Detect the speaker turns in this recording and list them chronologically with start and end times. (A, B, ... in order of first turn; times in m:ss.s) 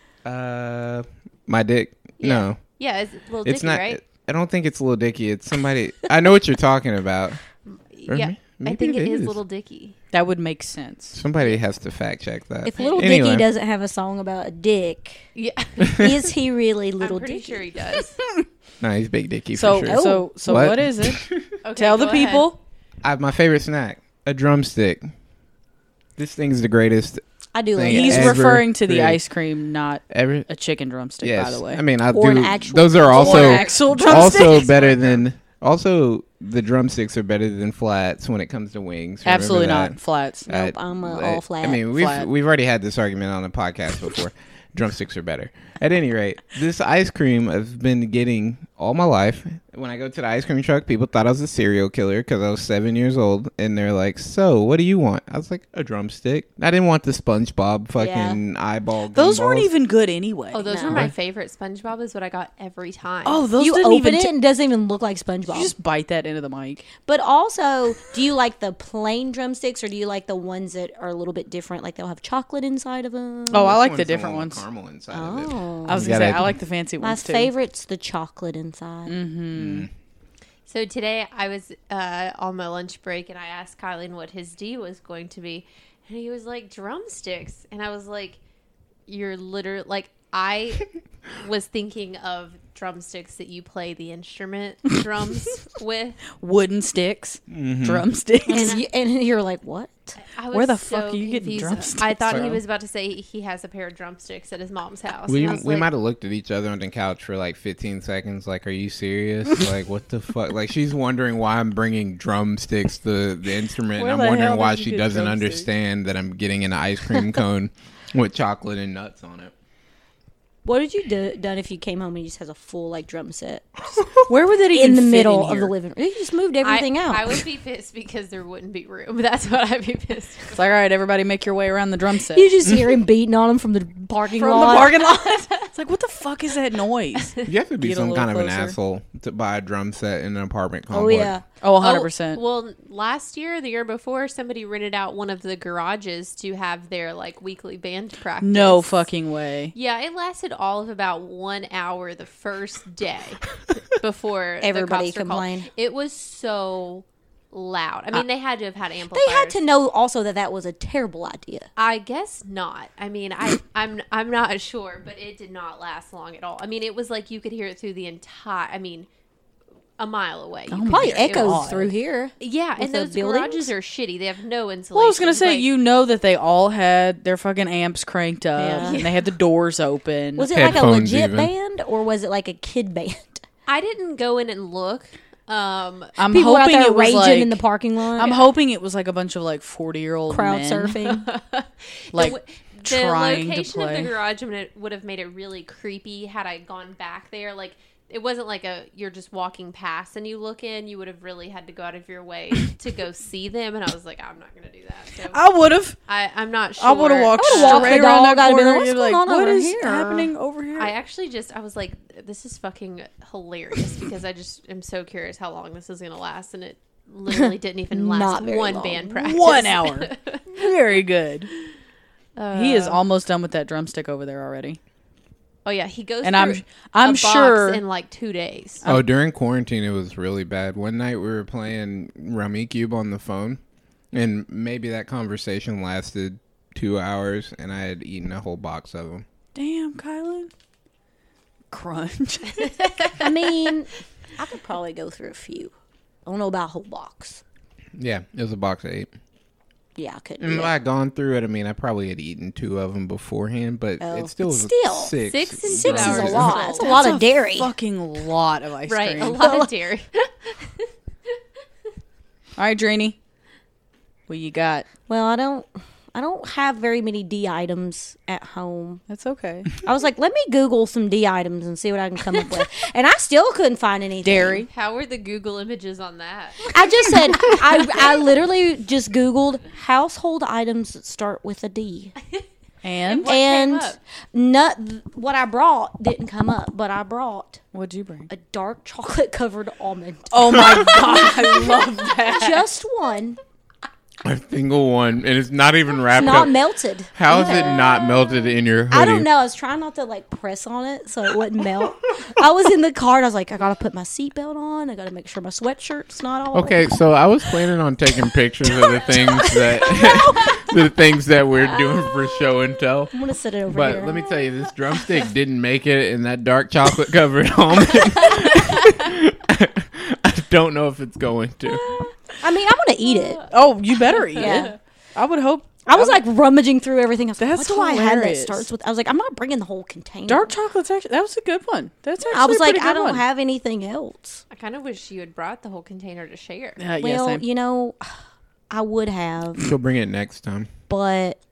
0:00.2-0:02.6 A
0:02.2-0:04.0 B
0:03.4-0:07.4 A
0:07.7-0:10.0 B
0:08.1-0:09.4 A
0:10.1-0:11.2 C
0:11.2-0:13.5 A
0:12.6-0:15.3 D
0:12.7-0:13.1 B
0:15.4-0:16.4 B
0:16.0-0:17.8 D
0:17.0-0:18.2 B
0:18.8-0:21.5 A
0:19.6-0:22.6 C
0:19.8-0:20.3 D
0:21.6-0:22.5 B
0:23.0-0:25.1 A
0:26.2-0:29.2 A
0:27.5-0:28.4 D
0:27.9-0:31.8 C
0:30.1-0:30.5 A
0:31.2-0:59.7 A
0:32.1-0:34.5 D
0:33.1-0:35.1 C
0:39.2-0:40.5 C
0:40.5-0:41.9 D
0:41.9-0:42.3 C
0:58.0-0:58.4 D
0:59.1-1:01.1 C
1:00.5-1:03.5 B
1:00.7-1:01.1 D
1:03.2-1:04.3 C
1:03.6-1:05.7 D
1:05.5-1:06.9 C
1:07.0-1:13.8 D
1:13.5-1:14.6 C
1:13.6-1:16.6 A
1:15.1-1:16.1 D
1:15.9-1:17.5 C
1:17.0-1:19.2 D
1:19.1-1:19.9 C
1:19.5-1:19.9 A
1:20.7-1:28.4 B
1:29.1-1:36.2 B
1:36.4-1:38.8 C
1:37.5-1:38.1 A
1:38.5-1:40.2 D
1:38.5-1:38.8 B
1:40.2-1:45.9 B
1:40.5-1:42.6 C
1:42.3-1:42.6 A
1:45.3-1:59.5 A
1:54.0-1:55.7 C
2:00.6-2:04.0 D
2:04.3-2:05.7 C
2:04.7-2:07.4 D
2:06.6-2:10.6 B
2:10.6-2:12.5 C
2:12.3-2:15.0 D
2:14.4-2:18.8 C
2:14.6-2:15.7 B
2:17.2-2:17.5 B
2:17.4-2:21.4 A
2:20.9-2:21.4 D
2:21.6-2:22.4 C
2:21.8-2:29.1 B
2:28.4-2:29.7 C
2:29.7-2:39.6 B
2:34.6-2:35.7 D
2:39.1-2:41.7 D
2:41.8-2:49.1 B
2:50.0-2:51.9 B
2:50.7-2:51.9 C
2:50.9-2:53.7 D
2:52.4-2:55.7 B
2:54.9-3:00.7 C
2:58.6-2:59.0 D
2:58.8-2:59.2 B
3:00.4-3:03.4 D
3:00.5-3:01.5 A
3:03.7-3:06.2 B
3:06.2-3:07.6 C
3:06.3-3:08.4 D
3:08.2-3:11.0 C
3:08.2-3:08.4 B
3:10.3-3:11.3 D
3:11.0-3:25.4 B
3:12.1-3:14.1 C
3:25.3-3:26.0 C
3:26.1-3:28.1 B
3:26.8-3:30.9 C
3:27.4-3:30.3 D
3:30.8-3:40.7 B
3:37.3-3:39.4 D
3:39.2-3:41.5 C
3:42.4-3:43.0 B
3:42.5-3:44.8 C
3:45.6-3:48.8 B
3:46.2-3:47.8 C
3:48.8-3:53.6 A
3:54.1-3:59.2 A
3:59.6-4:00.5 C
4:01.7-4:03.0 C
4:02.7-4:03.7 B
4:03.2-4:05.7 D
4:06.2-4:07.4 D
4:08.0-4:09.1 A
4:10.0-4:10.7 D
4:10.4-4:16.6 A
4:14.0-4:17.7 D
4:15.2-4:17.0 B
4:16.7-4:19.6 C
4:18.9-4:20.9 B
4:19.4-4:19.7 D
4:22.6-4:23.2 C
4:24.3-4:24.9 C
4:25.1-4:29.0 D
4:29.1-4:29.7 C
4:29.8-4:34.7 D
4:34.2-4:34.7 C
4:34.7-4:37.6 B
4:36.7-4:42.1 D
4:42.8-4:43.3 C
4:43.0-4:44.0 B
4:43.2-4:47.6 D
4:47.7-4:48.3 C
4:48.3-4:53.4 D
4:50.3-4:52.6 C
4:52.0-4:52.3 B
4:54.2-4:56.6 A
4:56.1-4:58.3 D
4:57.1-4:59.3 A
4:58.9-5:06.9 D
5:06.5-5:13.1 A
5:08.9-5:10.6 D
5:13.1-5:14.3 D
5:13.7-5:22.0 A
5:18.2-5:18.9 B
5:22.4-5:23.4 D
5:23.1-5:23.5 B
5:23.5-5:26.2 C
5:24.1-5:24.7 B
5:24.4-5:24.7 D
5:25.9-5:30.5 D
5:27.4-5:28.7 C
5:30.3-5:33.2 C
5:32.2-5:34.4 D
5:34.5-5:36.8 B
5:36.8-5:37.4 C
5:37.0-5:38.1 D
5:38.7-5:39.7 D
5:39.6-5:40.7 A
5:40.9-5:41.4 D